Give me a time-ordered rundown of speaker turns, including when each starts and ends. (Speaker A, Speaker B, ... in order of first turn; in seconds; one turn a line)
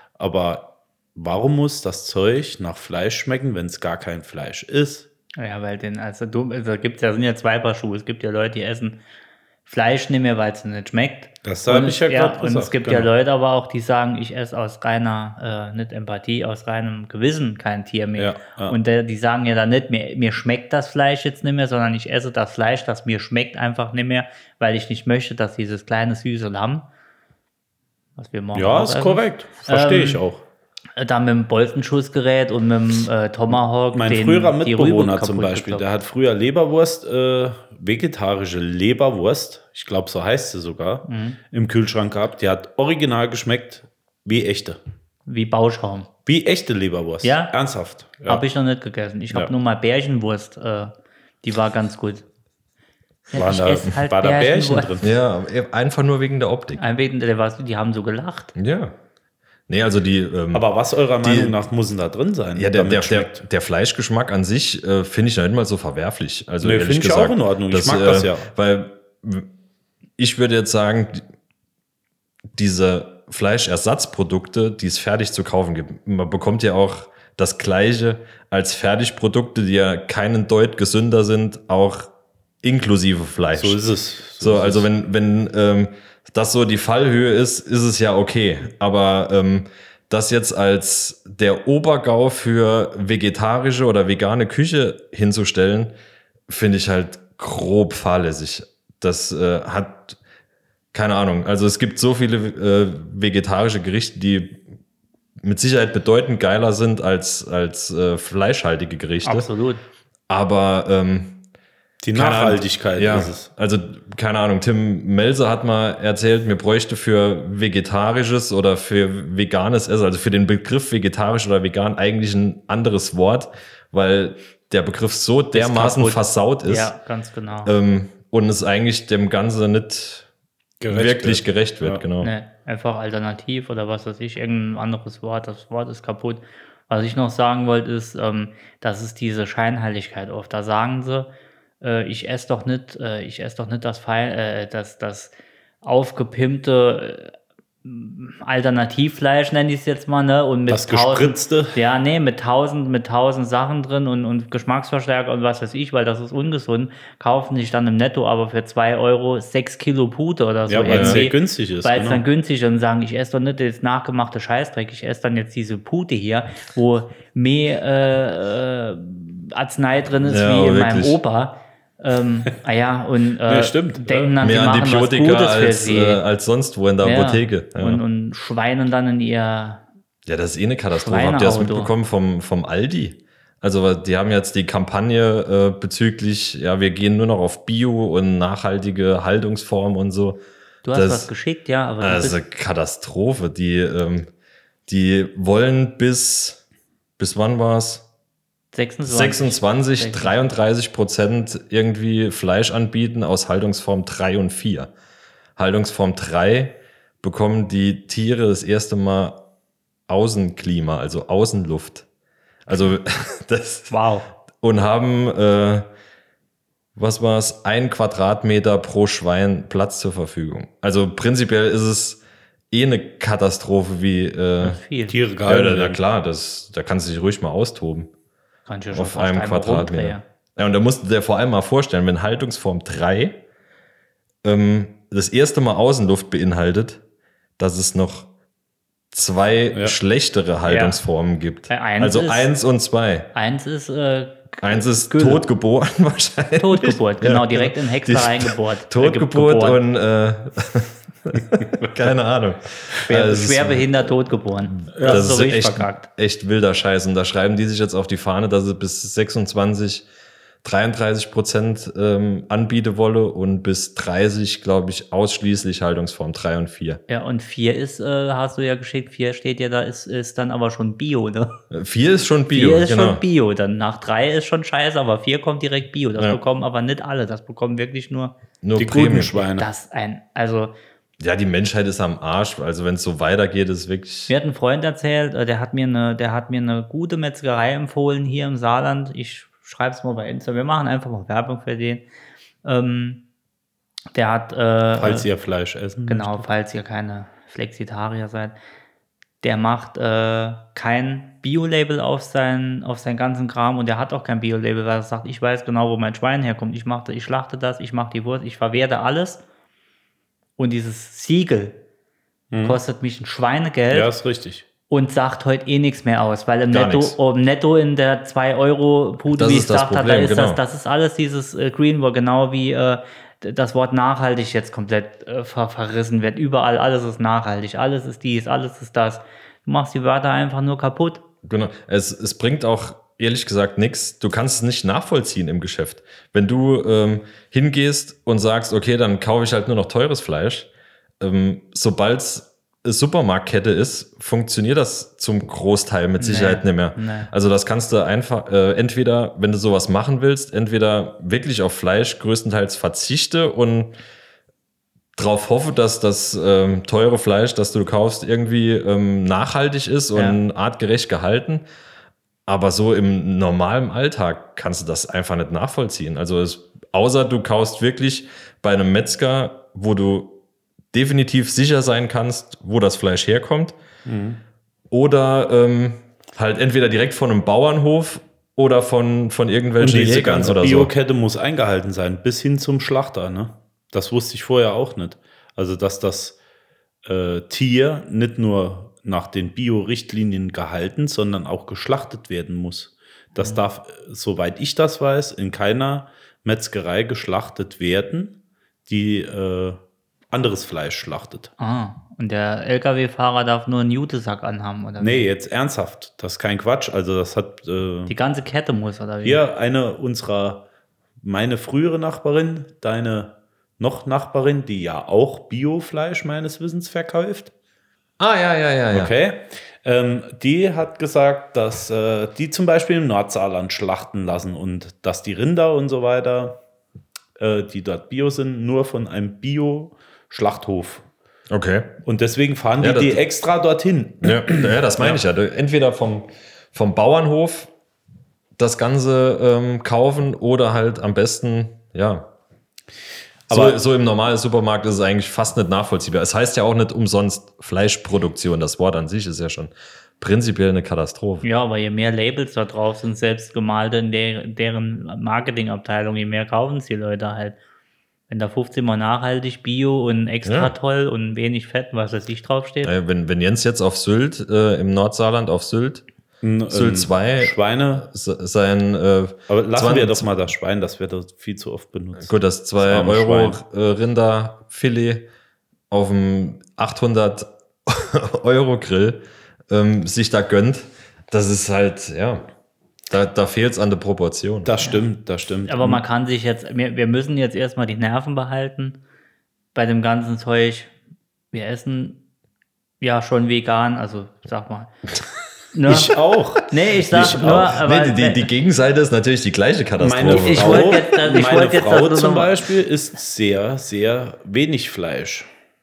Speaker A: 0.2-5.1
Speaker B: 5.4-9.0
Speaker B: 9.7-26.9
Speaker A: 11.4-13.1
Speaker A: 18.2-18.8
Speaker B: 28.2-30.2
Speaker A: 28.5-30.4
Speaker B: 31.0-35.9
Speaker A: 33.9-44.8
Speaker B: 41.1-41.4
Speaker B: 45.3-46.1
Speaker A: 46.3-48.4
Speaker B: 47.2-47.5
Speaker B: 48.3-52.2
Speaker B: 53.3-54.9
Speaker A: 53.4-55.1
Speaker C: 55.0-56.8
Speaker B: 56.8-58.5
Speaker C: 58.5-59.0
Speaker C: 59.7-60.7
Speaker A: 60.5-63.4
Speaker C: 61.2-61.5
Speaker C: 62.6-69.5
Speaker A: 66.6-68.5
Speaker C: 70.2-71.2
Speaker C: 72.5-82.1
Speaker C: 82.6-83.8
Speaker A: 83.6-84.9
Speaker C: 84.4-95.9
Speaker C: 96.5-100.2
Speaker C: 100.9-104.6
Speaker C: 105.4-109.5
Speaker B: 109.2-109.8
Speaker C: 110.3-111.4
Speaker A: 112.0-113.5
Speaker C: 112.1-126.9
Speaker B: 125.5-127.7
Speaker C: 127.7-130.3
Speaker A: 130.8-132.0
Speaker C: 130.9-132.3
Speaker B: 132.2-141.3
Speaker B: 141.8-147.3
Speaker B: 147.8-176.2
Speaker A: 150.7-151.8
Speaker A: 160.7-162.2
Speaker C: 160.9-161.2
Speaker C: 170.2-171.2
Speaker A: 173.5-174.3
Speaker C: 174.4-178.0
Speaker B: 177.0-179.8
Speaker C: 180.3-190.4
Speaker B: 180.9-181.9
Speaker B: 190.8-192.4
Speaker C: 190.9-191.3
Speaker C: 192.0-194.3
Speaker C: 194.9-196.6
Speaker C: 197.2-198.1
Speaker B: 198.7-200.5
Speaker C: 199.1-204.9
Speaker C: 205.6-209.4
Speaker C: 210.1-212.1
Speaker C: 212.7-213.9
Speaker B: 213.9-214.3
Speaker C: 214.6-215.9
Speaker C: 217.0-224.8
Speaker B: 224.6-225.2
Speaker A: 225.1-226.0
Speaker C: 225.5-228.1
Speaker B: 228.7-230.2
Speaker C: 228.9-233.4
Speaker C: 234.4-237.0
Speaker C: 237.6-238.3
Speaker C: 239.1-243.3
Speaker B: 240.7-241.0
Speaker B: 241.7-242.5
Speaker B: 243.3-245.4
Speaker C: 244.6-254.1
Speaker B: 246.6-249.8
Speaker B: 253.1-256.1
Speaker C: 254.7-260.1
Speaker A: 254.9-255.3
Speaker C: 260.6-267.0
Speaker B: 267.1-271.6
Speaker C: 271.7-273.2
Speaker B: 272.5-278.4
Speaker C: 278.6-279.4
Speaker A: 278.8-279.7
Speaker B: 279.6-280.7
Speaker C: 281.2-284.3
Speaker B: 284.3-292.1
Speaker B: 292.6-293.2
Speaker B: 294.1-295.3
Speaker A: 295.0-296.4
Speaker B: 296.1-298.6
Speaker B: 299.4-309.4
Speaker B: 310.6-311.8
Speaker A: 312.5-312.8
Speaker B: 312.6-314.1
Speaker A: 313.9-314.6
Speaker B: 314.9-331.2
Speaker C: 316.7-317.2
Speaker C: 319.3-320.6
Speaker C: 331.4-340.7
Speaker C: 341.2-353.9
Speaker B: 346.2-347.3
Speaker C: 355.2-361.6
Speaker B: 360.1-360.4
Speaker C: 362.5-370.4
Speaker C: 370.9-373.8
Speaker A: 374.1-374.4
Speaker C: 374.9-380.9
Speaker A: 379.8-386.4
Speaker A: 387.1-399.8
Speaker B: 393.4-393.6
Speaker A: 400.3-401.5
Speaker B: 401.6-405.3
Speaker A: 405.0-408.1
Speaker B: 408.1-409.4
Speaker A: 409.2-410.6
Speaker A: 411.2-417.5
Speaker C: 418.2-419.1
Speaker A: 418.9-426.6
Speaker A: 427.4-431.1
Speaker C: 431.5-432.0
Speaker A: 432.1-435.2
Speaker C: 432.8-433.2
Speaker C: 434.2-437.7
Speaker C: 438.6-442.3
Speaker A: 443.5-443.8
Speaker C: 443.5-451.4
Speaker B: 451.4-457.6
Speaker B: 458.3-462.9
Speaker C: 460.4-460.7
Speaker C: 462.8-466.1
Speaker A: 466.4-468.1
Speaker C: 466.7-470.3
Speaker A: 469.5-473.6
Speaker C: 472.2-475.3
Speaker C: 475.9-482.5
Speaker C: 483.1-484.7
Speaker A: 484.6-486.0
Speaker B: 485.7-489.0
Speaker B: 489.8-490.9
Speaker B: 491.5-492.2
Speaker B: 493.0-494.9
Speaker B: 495.7-496.1
Speaker A: 495.9-497.5
Speaker B: 496.7-498.5
Speaker C: 497.1-501.0
Speaker A: 500.0-505.5
Speaker B: 500.3-502.6